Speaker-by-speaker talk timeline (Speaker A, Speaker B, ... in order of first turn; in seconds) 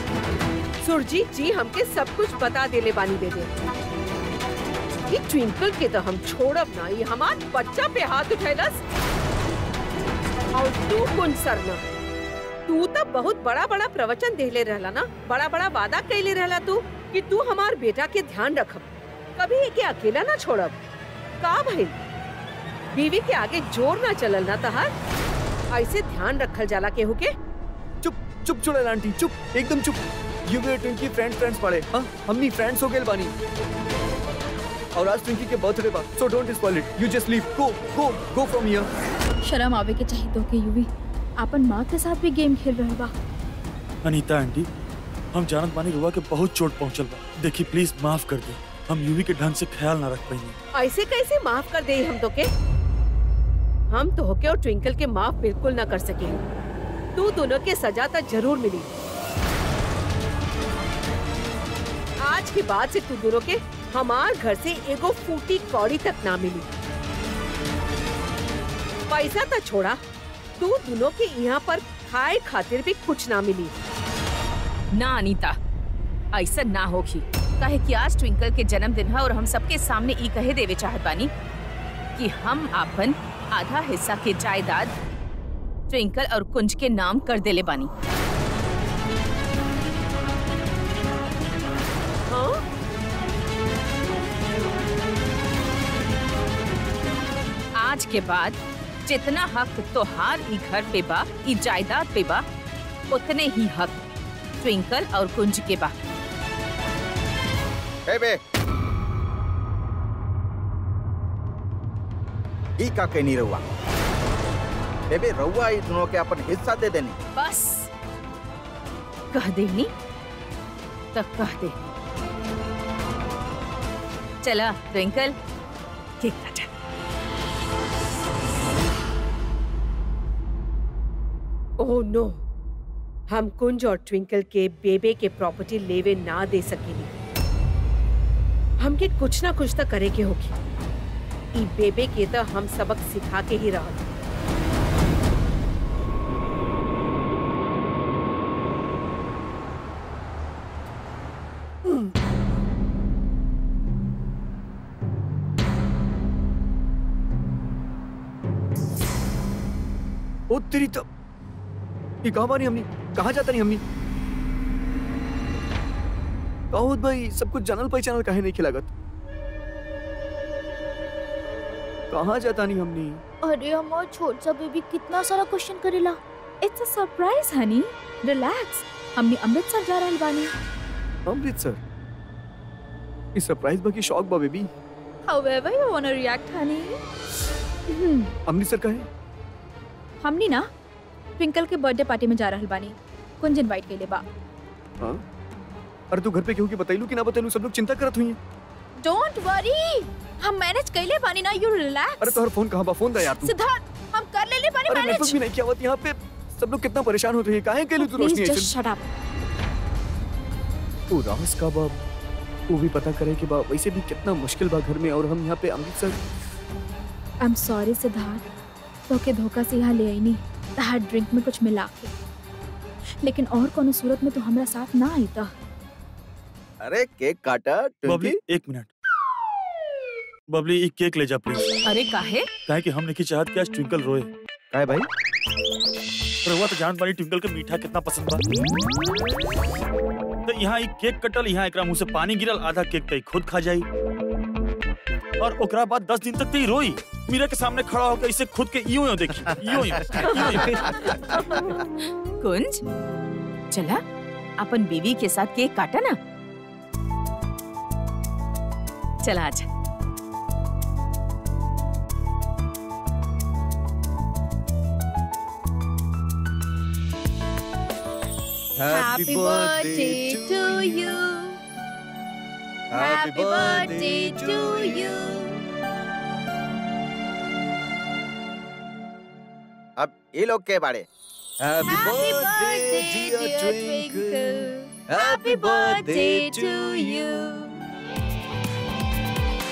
Speaker A: 0.8-3.5, 5.1-8.8, 10.5-11.8, 12.7-18.9, 19.4-20.8, 21.4-21.9, 22.9-24.9, 25.7-27.3, 50.8-52.5, 53.9-56.5, 57.1-58.9, 62.2-66.7, 69.1-70.0, 70.6-73.7, 92.3-92.6, 131.8-132.4, 133.3-137.1, 138.8-140.6, 141.5-144.1
Speaker B: 28.0-33.3, 35.0-38.9, 151.8-152.1, 160.5-161.1, 162.2-163.8, 166.7-168.9, 172.1-173.2, 181.2-181.8, 183.3-184.7, 188.5-189.1, 196.1-198.4, 202.2-203.5, 204.9-208.7, 211.1-212.0, 212.7-216.2, 250.2-251.4, 268.8-271.0, 272.9-275.5, 281.6-287.3
Speaker C: 39.4-40.9, 41.4-43.1, 173.4-180.5, 185.3-187.0, 187.9-188.3, 190.2-190.7, 191.4-194.2, 199.0-202.4, 203.3-205.4, 208.0-209.1, 217.4-218.4, 219.1-222.1, 223.2-225.5, 268.9-271.6, 272.9-275.5, 281.8-287.7
Speaker D: 44.0-44.7, 45.3-50.6, 228.1-228.9, 230.5-231.8, 232.6-234.3, 236.4-238.4, 240.4-243.8, 245.4-251.2
Speaker E: 74.9-75.5, 76.3-81.3, 82.2-84.9, 85.9-87.9, 97.8-102.4, 103.1-104.0, 104.6-105.9, 117.3-117.9, 119.3-119.9, 121.1-121.7, 124.4-125.3, 126.2-126.7, 231.8-232.5, 251.5-251.8, 252.4-252.8, 253.7-254.0, 254.6-256.1, 259.2-259.6
Speaker F: 108.1-108.4, 112.8-113.6, 115.1-117.2, 226.8-228.4, 234.7-235.1, 249.5-251.4, 280.0-281.0